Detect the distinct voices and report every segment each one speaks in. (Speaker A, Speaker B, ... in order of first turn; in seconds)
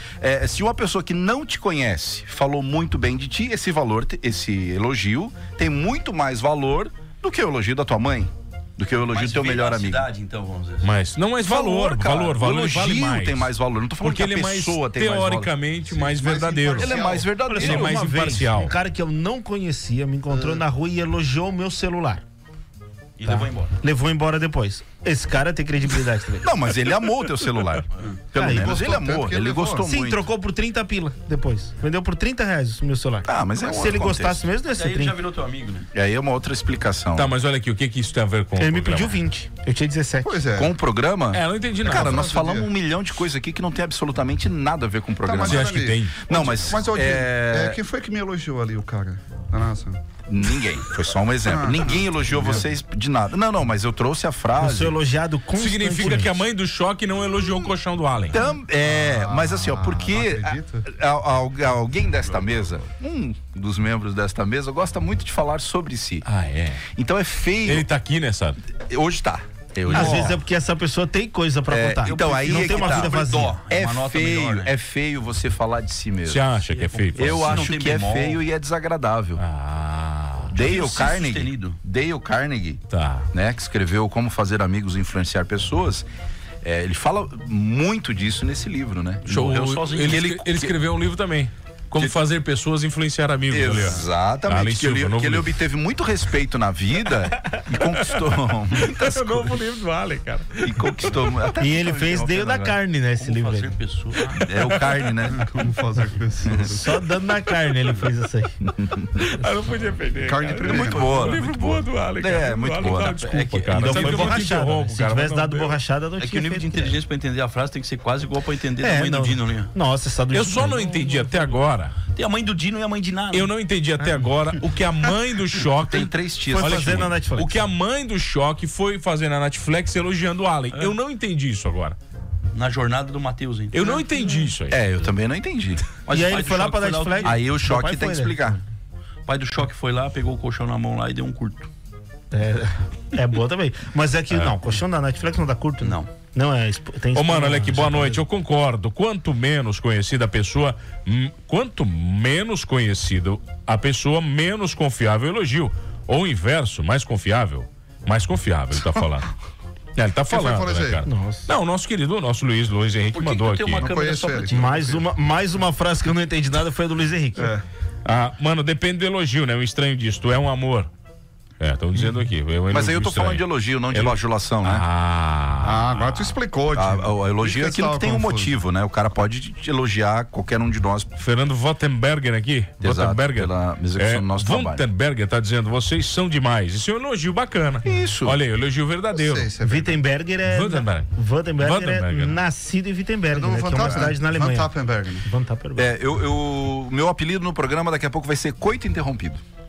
Speaker A: 0.2-10.1, 11.4-15.5, 16.7-18.0, 26.4-30.2, 33.2-34.5, 35.9-37.3, 40.5-47.8, 50.3-55.0, 58.3-66.2, 66.9-67.8, 68.8-70.4, 71.7-76.5, 77.2-79.4, 80.5-86.0, 86.6-90.7, 93.5-99.6, 100.6-101.9, 104.4-105.4, 106.4-106.7, 108.6-109.2, 110.7-114.3, 125.8-127.1, 134.7-135.8, 137.2-138.6, 172.7-174.8, 176.7-181.1, 182.8-184.8, 187.8-188.4, 195.8-199.4
Speaker B: 9.1-10.9, 23.2-23.7, 34.6-35.9, 69.9-70.2, 72.0-74.7, 76.7-78.4, 80.5-81.8, 89.4-90.2, 101.7-104.8, 116.2-119.7, 122.1-123.5, 132.5-134.0, 136.0-137.5, 139.2-141.7, 145.8-146.1, 163.1-164.8
Speaker C: 10.8-18.7, 37.1-39.2, 41.3-42.3, 45.4-46.2, 55.6-58.4, 66.2-66.8, 67.6-68.6, 76.2-77.6, 79.4-80.5, 82.9-83.3, 89.2-95.6, 98.8-101.3, 109.2-115.8, 120.3-122.0, 123.3-132.0, 133.7-134.8, 144.3-144.6, 147.1-159.3, 159.9-163.9, 168.0-170.9, 171.6-176.3, 181.2-189.5, 190.4-192.4
Speaker D: 15.9-17.3, 20.3-20.6, 28.4-29.9, 40.2-40.7, 41.8-42.7, 45.2-50.0, 51.4-52.7, 58.3-60.9, 105.3-107.0, 110.2-111.3, 160.3-161.0, 163.8-165.0, 167.4-167.6, 175.6-178.5, 189.1-190.0, 193.3-195.3
Speaker E: 17.5-22.2, 23.2-26.4, 28.3-28.7, 29.8-35.1, 38.6-40.4, 54.6-56.4, 69.9-73.6, 101.6-103.7, 106.7-108.5, 113.7-116.9, 118.8-121.3, 126.5-127.7, 136.1-138.4, 142.3-148.2, 161.1-161.5, 164.5-167.5, 189.6-195.9